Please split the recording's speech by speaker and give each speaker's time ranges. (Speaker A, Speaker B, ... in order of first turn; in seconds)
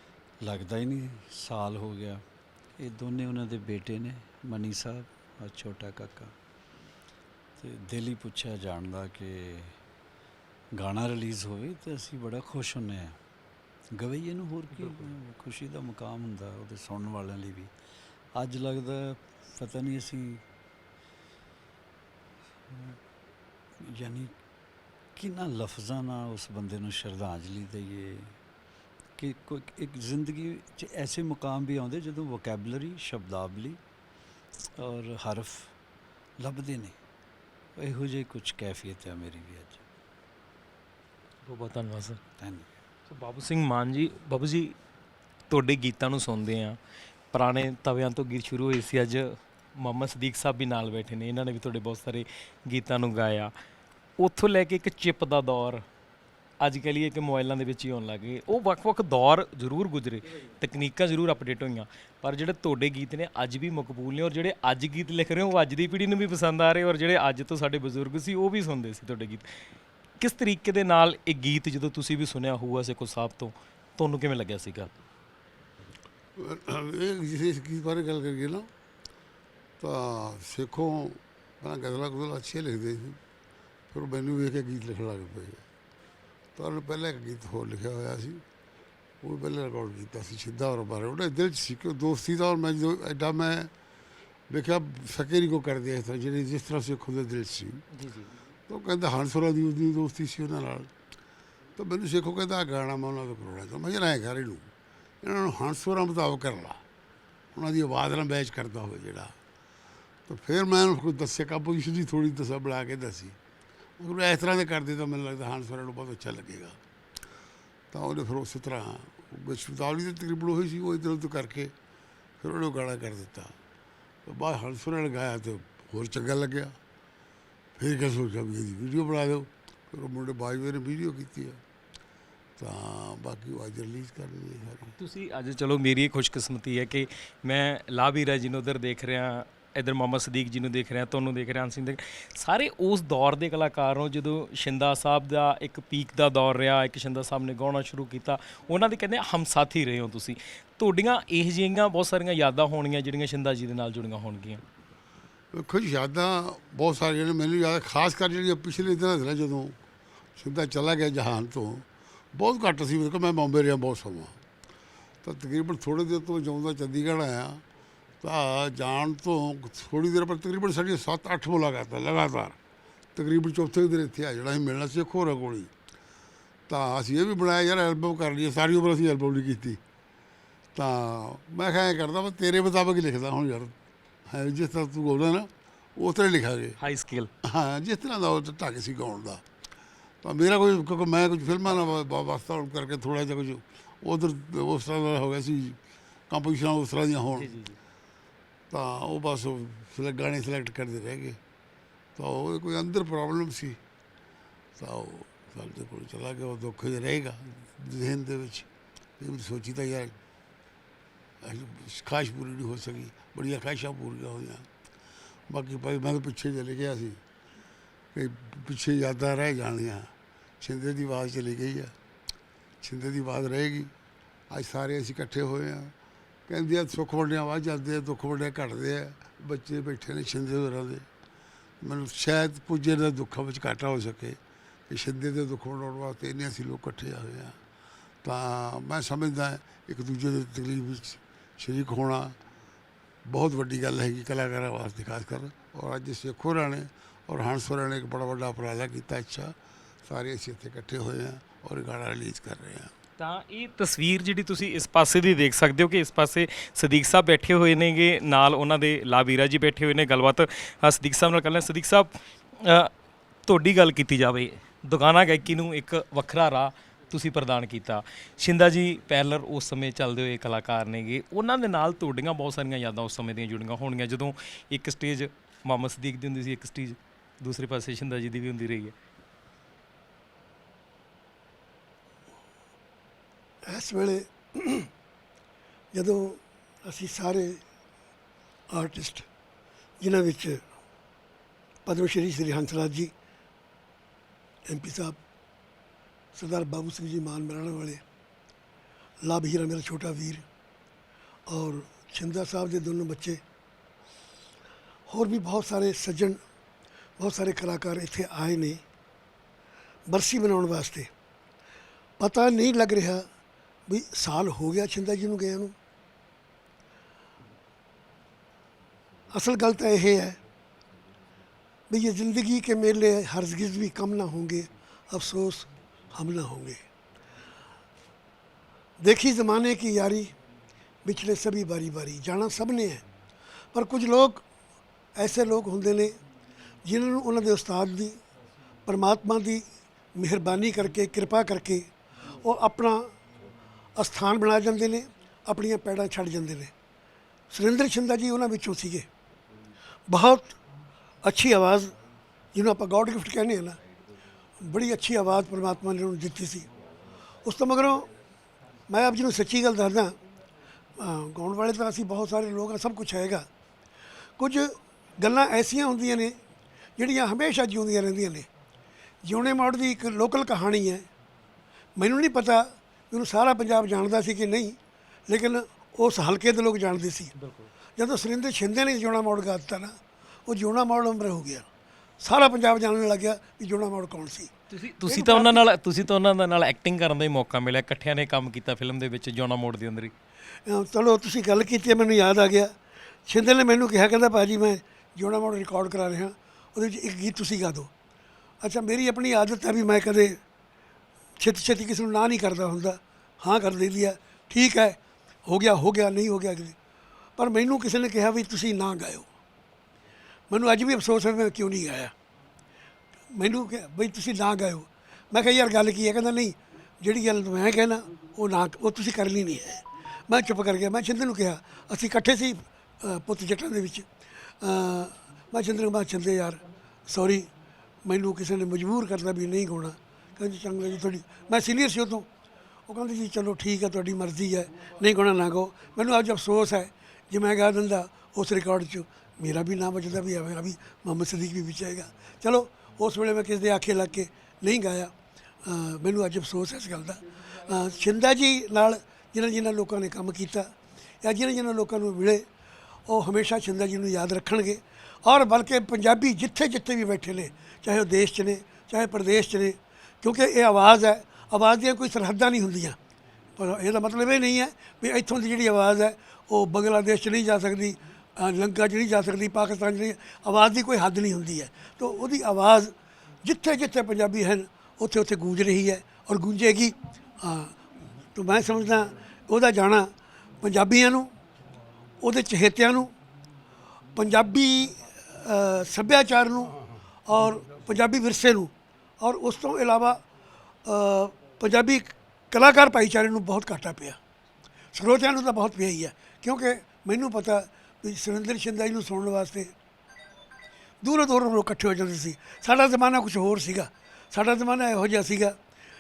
Speaker A: 0.4-2.2, 2.8-6.3, 7.6-9.8, 10.8-13.2, 14.0-17.7, 18.4-20.4, 23.8-24.3, 25.2-28.4, 29.2-33.8, 34.8-35.8, 36.4-37.0, 37.8-39.8, 42.4-42.7
Speaker B: 14.8-15.1, 41.5-42.2, 43.1-44.8, 45.5-46.8, 47.3-53.5, 54.2-55.9, 56.6-69.5, 70.2-74.9, 97.9-98.3, 135.0-154.6, 186.8-187.3, 197.3-197.8, 253.2-262.9, 263.5-278.9, 377.4-377.7, 384.7-390.1
Speaker C: 76.4-78.7, 79.8-83.2, 83.9-85.6, 86.6-88.4, 89.2-93.7, 94.5-97.8, 98.7-100.9, 101.8-104.7, 105.2-106.8, 107.5-109.3, 110.3-113.4, 114.0-116.8, 117.9-121.7, 122.4-123.5, 124.3-126.8, 127.8-131.6, 132.6-134.9, 155.5-159.8, 160.4-164.3, 165.2-167.6, 168.2-172.6, 173.2-175.7, 176.7-179.8, 180.8-183.8, 184.3-186.8, 187.4-189.4, 190.2-195.8, 196.3-197.6, 198.7-201.4, 202.2-203.8, 204.8-208.7, 209.2-210.1, 211.4-214.7, 215.5-217.2, 218.1-221.9, 222.8-223.9, 224.5-225.9, 226.5-231.1, 231.8-237.6, 238.2-242.4, 243.3-252.9
Speaker D: 283.7-284.9, 285.9-287.6, 288.7-289.2, 290.0-290.6, 291.9-293.1, 294.7-295.2, 296.4-298.0, 299.2-300.4, 301.5-303.4, 305.1-306.4, 307.2-308.8, 310.1-311.1, 312.2-313.2, 313.9-315.7, 319.3-320.4, 321.9-326.8, 329.0-330.3, 331.0-333.0, 333.7-334.4, 335.2-336.1, 336.9-338.2, 338.9-339.6, 340.1-341.9, 342.4-343.1, 344.0-346.7, 347.5-349.1, 350.1-350.6, 351.2-351.9, 352.5-353.8, 354.6-356.7, 357.4-358.1, 358.9-360.1, 361.0-363.5, 364.4-366.3, 367.0-368.5, 369.2-371.1, 372.0-374.8, 375.3-377.3, 378.0-379.9, 380.5-381.6, 382.2-384.5, 385.0-385.6, 390.7-392.7, 393.3-397.9, 398.6-400.4, 401.4-406.8, 407.4-409.3, 410.5-412.1, 413.3-424.1, 424.6-427.5, 428.1-432.3, 432.9-445.1, 445.7-450.7, 451.2-452.4, 453.1-463.0, 463.6-472.9, 473.4-477.7, 478.4-480.1, 480.6-481.3, 482.2-483.1, 484.1-490.2, 490.9-494.2, 494.9-499.7, 501.0-505.6